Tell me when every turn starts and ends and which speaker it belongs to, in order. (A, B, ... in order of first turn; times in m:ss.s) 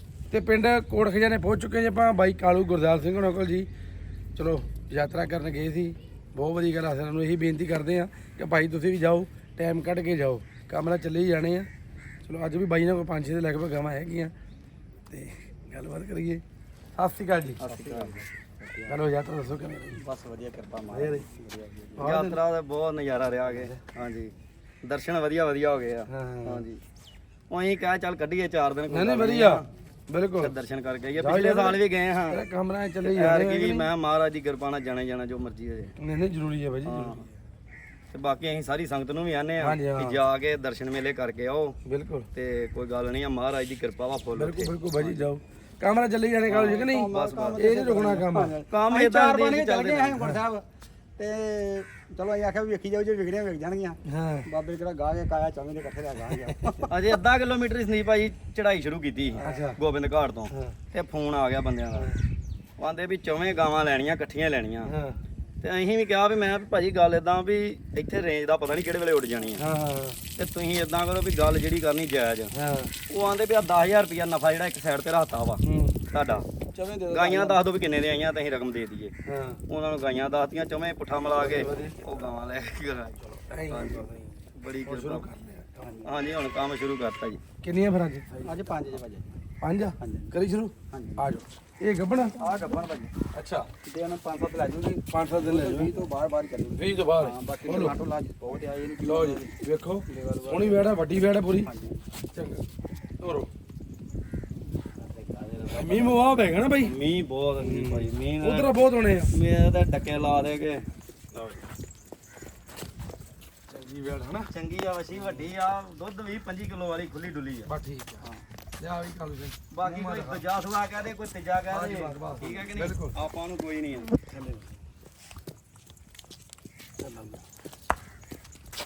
0:00.3-0:03.7 A
0:04.3-0:11.7 A
0:12.2-0:14.3 A
0:15.1-0:16.4 A
0:17.0-0:17.6 A
0:17.6-0:18.2 B
0:17.6-0:19.0 C
0:18.9-0:20.0 A
0:20.0-0:22.0 C
0:20.5-0:21.2 B
0:20.9-0:21.2 A
0:22.0-0:22.4 A
0:22.0-0:26.8 B
0:26.1-0:26.6 A
0:27.5-0:29.7 B
0:28.9-0:30.5 A
0:30.4-0:32.4 B
0:31.2-0:31.8 A
0:32.3-0:33.9 A
0:33.0-0:35.9 B
0:36.0-0:37.3 A
0:36.8-0:37.3 B
0:38.1-0:41.8 B
0:39.6-0:40.2 A
0:41.8-0:42.3 A
0:42.3-0:45.2 B
0:44.4-0:48.5 A
0:46.5-0:47.7 B
0:46.5-0:50.6 C
0:48.7-0:50.2 B
0:51.2-0:56.9 C
0:54.1-0:54.5 A
0:56.9-1:02.1 B
0:59.4-0:59.8 A
1:00.5-1:00.8 A
1:02.0-1:02.2 A
1:02.8-1:04.9 B
1:04.8-1:05.2 A
1:05.6-1:09.6 B
1:09.6-1:10.2 A
1:10.4-1:12.5 B
1:12.5-1:12.9 A
1:13.1-1:16.5 B
1:15.6-1:16.0 A
1:16.7-1:17.6 A
1:17.1-1:19.1 B
1:19.2-1:19.6 A
1:19.7-1:25.3 B
1:21.3-1:22.0 A
1:23.5-1:25.8 A
1:25.8-1:26.1 C
1:26.0-1:27.4 B
1:27.6-1:28.6 A
1:28.4-1:29.3 C
1:29.6-1:32.4 A
1:30.0-1:30.3 C
1:30.9-1:31.3 C
1:32.3-1:33.1 C
1:33.3-1:33.7 A
1:33.8-1:39.5 C
1:35.1-1:35.9 A
1:36.8-1:37.9 A
1:39.0-1:41.7 A
1:40.1-1:40.9 C
1:41.5-1:42.0 C
1:42.3-1:42.6 A
1:43.2-1:43.5 A
1:45.0-1:46.2 B
1:45.7-1:46.9 A
1:46.8-1:51.6 B
1:47.6-1:49.3 A
1:53.7-1:54.5 A
1:54.5-1:57.7 B
1:57.7-1:58.2 A
1:58.8-2:00.4 A
1:59.7-2:04.1 B
2:01.7-2:03.2 A
2:04.2-2:04.7 A
2:07.0-2:07.4 A